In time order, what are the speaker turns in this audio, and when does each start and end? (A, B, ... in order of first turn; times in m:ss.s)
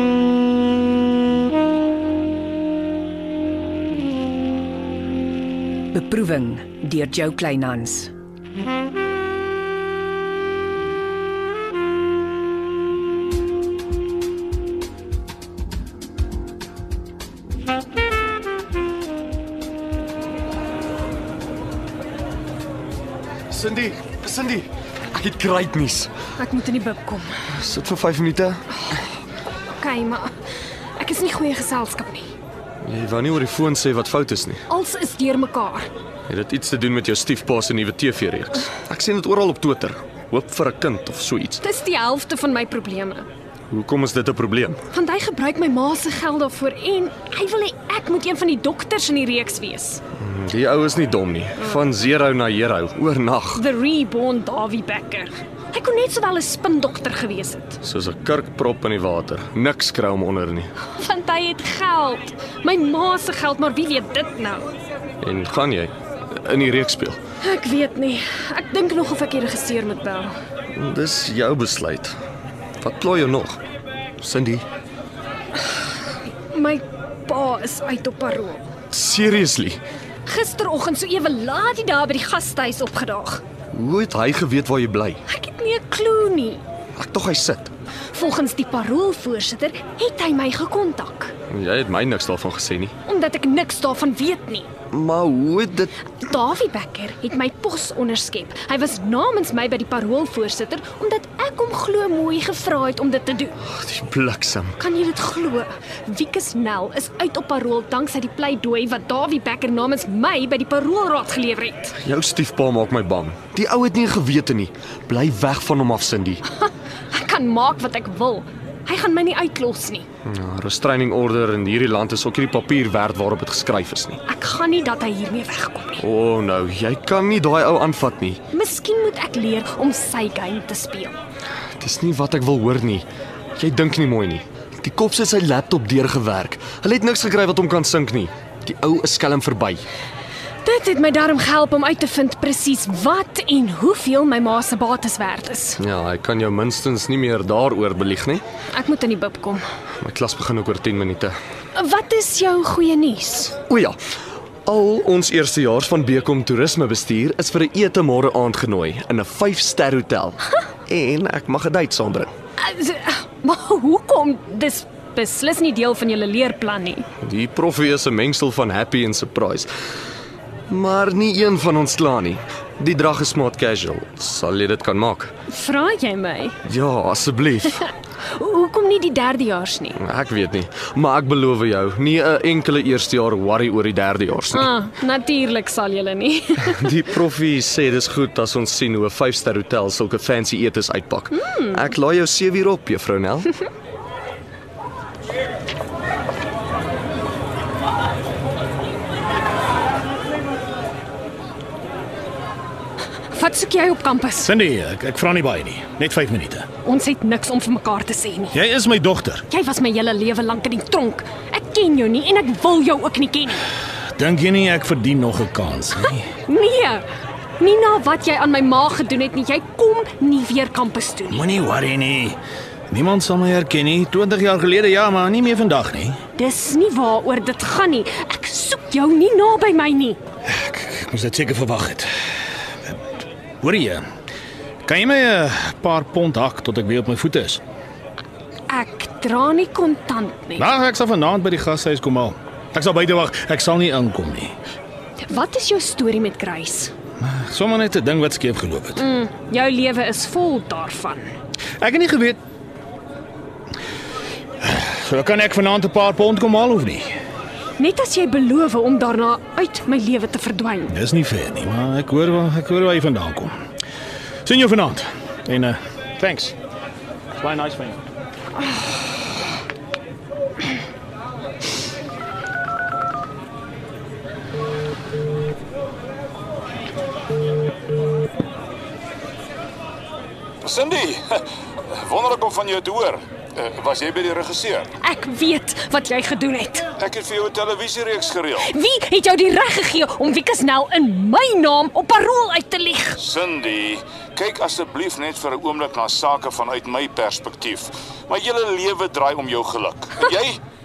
0:05.9-0:08.1 A
0:23.5-0:26.1 B
0:26.4-0:27.3 C
0:27.5-0:28.8 B
0:29.7-0:30.3 C
0:31.0-0:32.3 C
0:32.8-0:34.6 B
0:34.7-0:35.9 C
0:36.3-0:41.6 B
0:41.6-0:43.2 C
0:43.7-0:44.8 B
0:44.9-0:50.0 C
0:50.2-0:53.6 B
0:53.6-0:57.8 C
0:57.8-1:00.7 B
1:00.8-1:04.6 C
1:05.2-1:07.2 B
1:07.4-1:10.3 C
1:10.7-1:12.2 B
1:12.8-1:13.6 B
1:14.2-1:14.6 B
1:16.5-1:18.6 C
1:18.9-1:19.8 B
1:20.2-1:23.4 C
1:23.7-1:25.2 B
1:25.3-1:26.6 C
1:27.0-1:27.7 B
1:28.1-1:31.3 C
1:31.5-1:32.9 B
1:33.0-1:34.7 C
1:34.9-1:35.9 B
1:36.1-1:43.5 C
1:43.6-1:44.8 B
1:44.8-1:51.9 C
1:52.0-1:56.4 B
1:56.6-2:00.0 C
2:00.2-2:04.2 B
2:04.2-2:06.0 C
2:06.0-2:08.4 B
2:08.5-2:11.2 C
2:11.8-2:19.8 B
2:20.6-2:25.8 C
2:25.8-2:28.4 B
2:28.7-2:29.6 C
2:30.0-2:31.3 B
2:31.7-2:33.5 C
2:33.7-2:34.0 B
2:34.6-2:42.3 B
2:42.6-2:47.0 C
2:47.2-2:49.7 B
2:50.7-2:55.3 B
2:55.5-2:56.6 C
2:56.6-2:57.8 B
2:58.2-3:00.0 C
3:00.0-3:04.7 B
3:04.5-3:06.8 C
3:06.6-3:13.5 B
3:23.3-3:24.5 C
3:24.4-3:26.6 D
3:26.8-3:28.6 C
3:28.5-3:29.4 D
3:29.5-3:33.6 C
3:34.2-3:36.3 D
3:36.4-3:37.1 C
3:37.6-3:41.4 C
3:41.3-3:42.4 D
3:42.9-3:46.2 D
3:46.4-3:50.2 C
3:50.4-3:52.1 D
3:53.6-3:54.0 D
3:54.8-3:57.6 D
3:58.7-4:00.7 C
4:00.6-4:04.5 D
4:05.2-4:06.9 C
4:07.2-4:09.0 D
4:09.0-4:11.3 C
4:11.8-4:12.4 D
4:14.6-4:17.1 D
4:17.8-4:20.9 C
4:20.9-4:23.5 D
4:24.4-4:26.5 D
4:27.4-4:28.0 D
4:40.6-4:44.9 E
4:45.0-4:46.9 C
4:47.0-4:48.7 E
4:48.6-4:53.2 C
4:53.2-5:00.6 E